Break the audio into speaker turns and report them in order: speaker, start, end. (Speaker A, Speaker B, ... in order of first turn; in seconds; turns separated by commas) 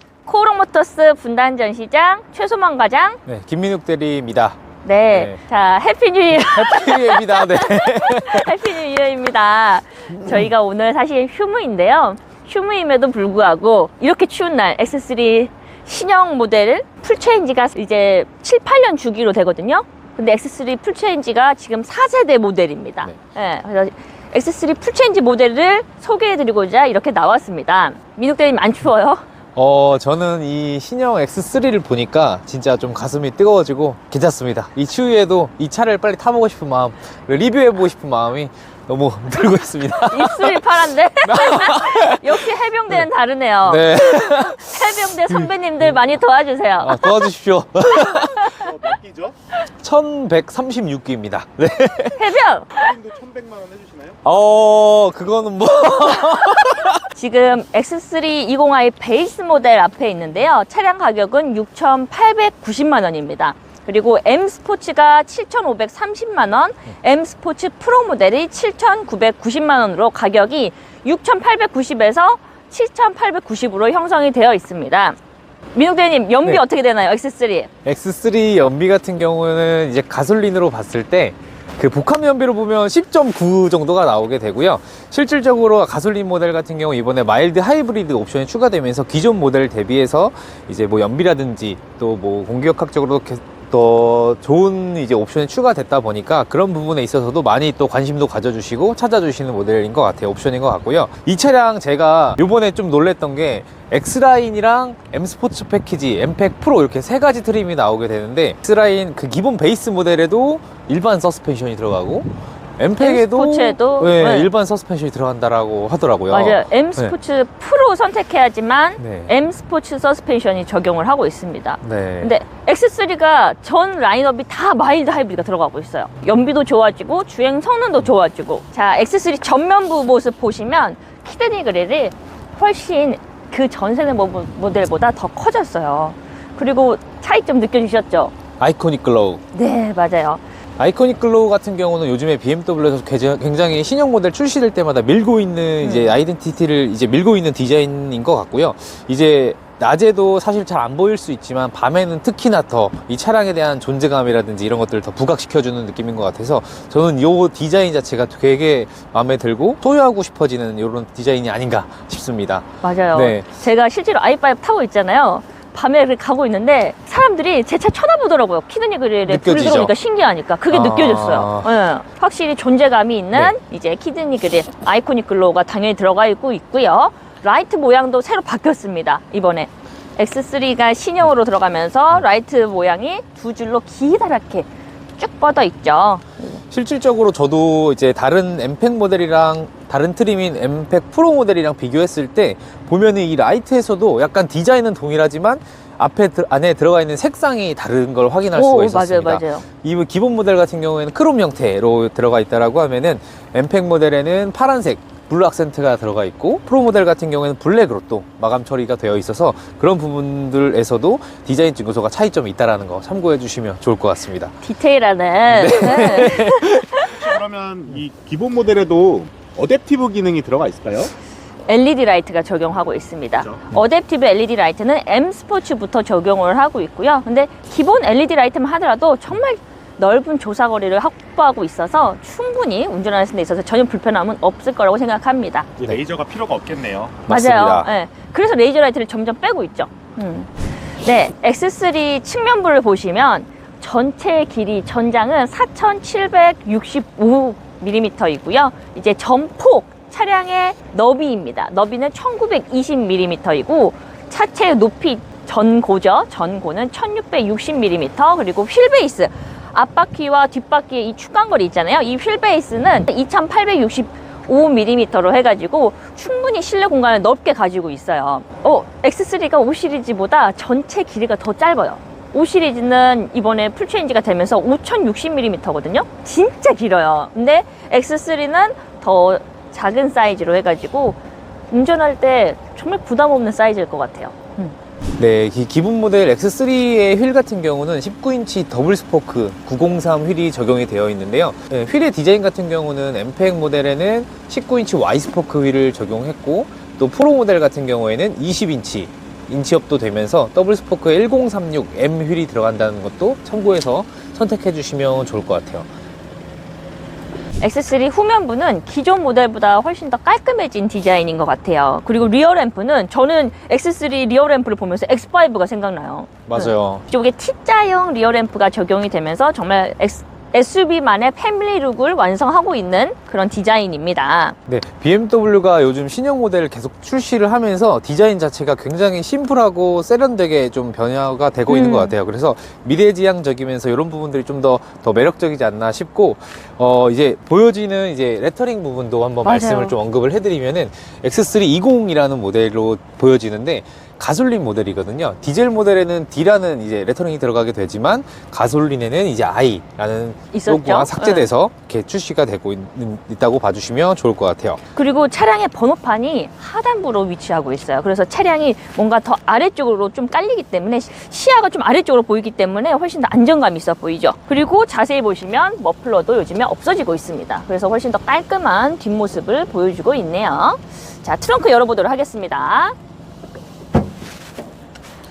Speaker A: 0.2-3.2, Speaker B: 3.2-5.4, Speaker A: 4.8-29.2, Speaker B: 6.3-8.7, Speaker B: 29.6-40.6, Speaker A: 40.1-47.2, Speaker B: 41.2-42.5, Speaker B: 43.6-45.5, Speaker B: 46.8-48.7, Speaker C: 48.5-49.4, Speaker B: 49.7-52.3, Speaker A: 52.1-52.9, Speaker C: 52.7-54.2, Speaker B: 54.2-57.1, Speaker A: 57.1-75.2, Speaker A: 75.7-77.7, Speaker B: 77.8-117.2, Speaker A: 113.0-114.5, Speaker A: 116.3-138.3, Speaker B: 119.0-119.3, Speaker B: 121.8-122.3, Speaker B: 138.6-139.4, Speaker A: 139.5-140.4, Speaker B: 140.8-163.5, Speaker A: 145.8-146.2, Speaker A: 162.8-186.6, Speaker B: 169.2-169.9, Speaker B: 170.7-171.7, Speaker B: 186.7-214.6, Speaker A: 198.5-199.7, Speaker A: 214.6-217.1, Speaker B: 215.5-217.2, Speaker C: 217.1-221.1, Speaker A: 221.7-235.7, Speaker C: 235.8-237.2, Speaker B: 237.2-237.9, Speaker A: 237.3-281.2, Speaker A: 281.7-284.7, Speaker B: 285.2-305.9, Speaker A: 307.6-324.6, Speaker B: 316.5-317.0, Speaker B: 324.7-354.8, Speaker A: 331.7-332.1, Speaker A: 339.4-340.0, Speaker A: 350.5-351.5, Speaker A: 354.9-372.9